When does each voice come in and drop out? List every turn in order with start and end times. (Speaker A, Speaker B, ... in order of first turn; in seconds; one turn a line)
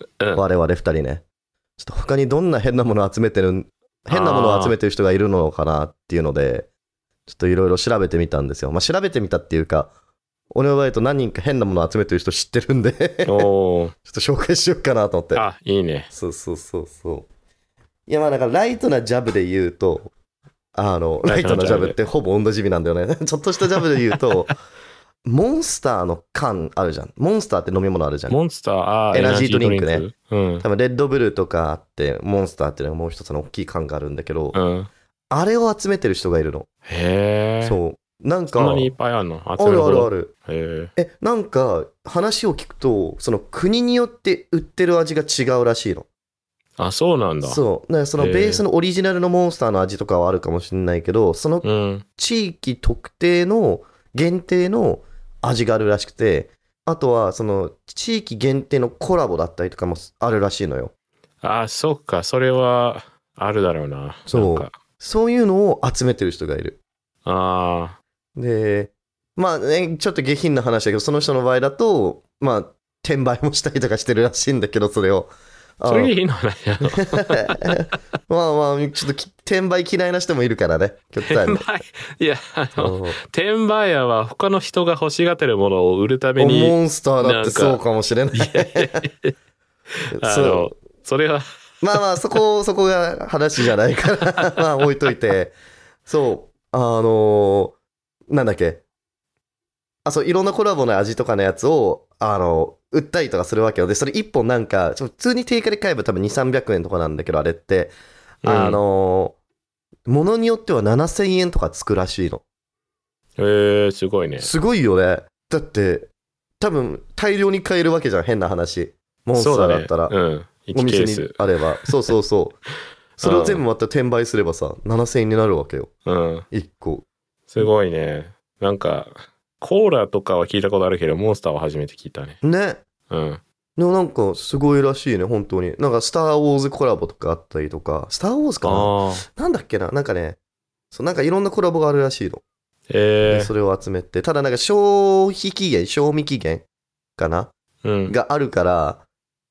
Speaker A: 0.3-1.2
Speaker A: 1.8-6.7
Speaker B: 4.1-4.8
Speaker A: 7.3-9.9
Speaker A: 10.5-13.5
Speaker B: 13.2-13.9
Speaker A: 14.1-15.4
Speaker B: 15.3-16.1
Speaker A: 16.1-17.3
Speaker A: 18.1-20.1
Speaker A: 20.7-24.6
Speaker B: 21.2-21.9
Speaker A: 25.2-28.4
Speaker B: 28.3-30.6
Speaker A: 29.1-30.1
Speaker A: 30.6-34.6
Speaker B: 34.5-34.9
Speaker A: 35.3-36.7
Speaker B: 36.9-37.8
Speaker A: 37.6-38.9
Speaker B: 38.5-40.9
Speaker A: 39.6-40.3
Speaker A: 41.0-46.1
Speaker B: 46.8-47.6
Speaker A: 47.4-51.6
Speaker B: 48.2-48.6
Speaker B: 51.6-52.0
Speaker A: 52.2-60.9
Speaker B: 61.4-64.8
Speaker A: 64.3-66.8
Speaker B: 67.2-68.0
Speaker A: 68.3-76.2
Speaker B: 75.9-77.8
Speaker A: 77.0-81.7
Speaker B: 81.2-87.8
Speaker A: 82.8-83.2
Speaker A: 86.4-89.0
Speaker B: 88.3-89.3
Speaker A: 90.2-90.7
Speaker B: 90.2-92.4
Speaker A: 91.8-95.5
Speaker A: 96.0-97.8
Speaker A: 98.3-98.8
Speaker A: 100.0-107.9
Speaker B: 108.4-108.8
Speaker A: 108.4-109.3
Speaker A: 110.1-112.4
Speaker B: 113.4-114.5
Speaker A: 114.4-120.1
Speaker B: 119.3-121.5
Speaker A: 120.7-122.6
Speaker A: 123.2-125.9
Speaker B: 123.2-123.6
Speaker B: 126.0-126.5
Speaker A: 126.5-127.0
Speaker B: 127.5-132.4
Speaker A: 132.4-132.8
Speaker B: 133.1-133.4
Speaker A: 133.8-140.4
Speaker B: 138.6-139.2
Speaker A: 140.9-142.4
Speaker B: 142.9-143.5
Speaker A: 143.2-146.6
Speaker A: 147.2-147.5
Speaker B: 147.8-148.2
Speaker A: 148.1-149.0